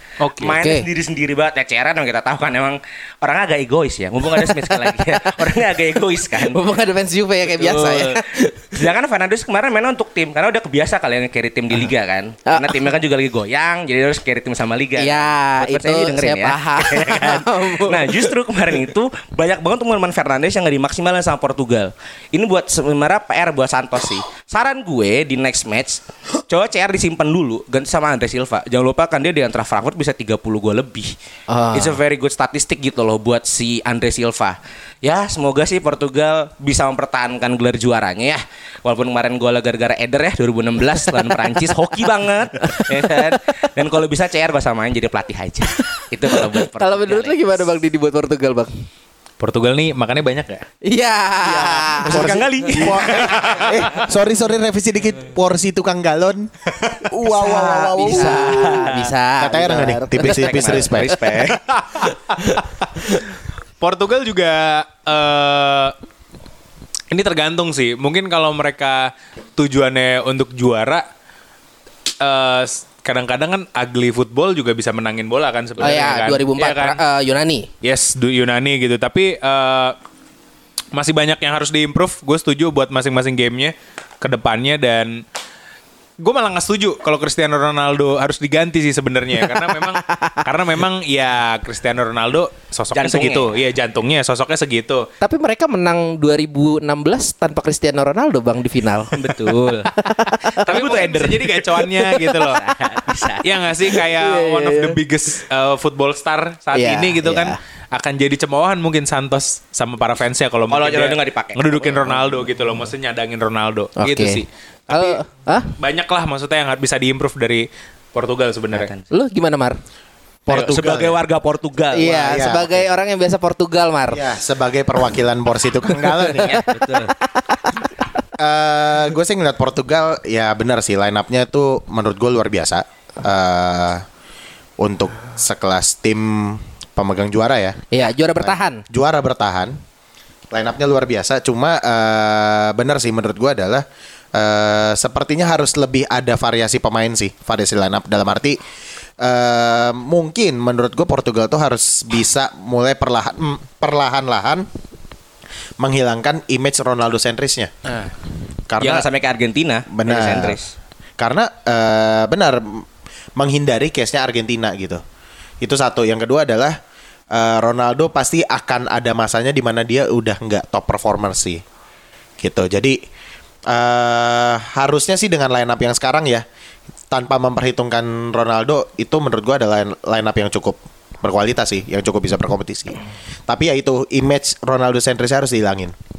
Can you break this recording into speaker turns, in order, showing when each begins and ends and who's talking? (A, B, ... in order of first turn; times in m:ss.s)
0:00.2-0:00.6 A
0:00.4-0:06.6 B
0:00.5-0:00.8 C
0:04.3-0:05.5 C
0:06.4-0:08.8 C
0:07.5-0:31.1 B
0:12.5-0:12.9 C
0:15.0-0:18.3 C
0:31.5-0:32.0 C
0:31.7-0:47.4 B
0:41.2-0:41.8 C
0:42.6-0:43.3 C
0:46.3-0:48.7 C
0:49.4-0:50.6 A
0:50.8-0:52.2 C
0:51.4-0:54.0 B
0:52.0-0:58.8 D
0:53.2-0:53.9 A
0:57.3-1:01.2 C
0:57.6-0:58.9 B
0:59.4-1:01.2 D
1:00.2-1:01.6 B
1:01.6-1:02.7 A
1:03.8-1:05.9 A
1:07.1-1:11.0 A
1:12.2-1:17.0 A
1:15.8-1:17.7 C
1:17.8-1:20.0 A
1:20.9-1:25.2 A
1:26.2-1:35.1 A
1:29.4-1:30.4 C
1:32.9-1:33.5 B
1:35.2-1:40.7 C
1:39.1-1:39.9 B
1:40.6-1:41.6 B
1:40.6-1:42.6 A
1:41.9-1:42.5 C
1:42.4-1:43.6 B
1:43.4-1:55.2 A
1:44.2-1:45.0 C
1:46.7-1:47.6 C
1:50.7-1:52.9 B
1:54.0-1:55.7 C
1:55.8-1:58.9 A
1:58.7-1:59.0 B
1:59.1-1:59.8 C
2:00.4-2:01.2 D
2:00.5-2:02.5 B
2:01.9-2:04.2 C
2:02.2-2:02.7 D
2:04.1-2:06.5 D
2:06.4-2:07.1 B
2:06.4-2:07.9 C
2:08.4-2:14.0 D
2:14.8-2:17.9 D
2:17.9-2:18.8 C
2:18.4-2:19.8 D
2:20.5-2:28.6 D
2:29.2-2:34.7 D
2:35.8-2:37.7 D
2:38.7-2:39.1 D
2:38.8-2:40.7 B
2:39.9-2:40.6 D
2:41.2-2:42.8 D
2:43.4-2:45.0 D
2:45.6-2:46.8 D
2:47.3-2:51.6 D
2:52.4-2:53.0 D
2:53.7-2:56.4 D
2:57.1-3:05.9 D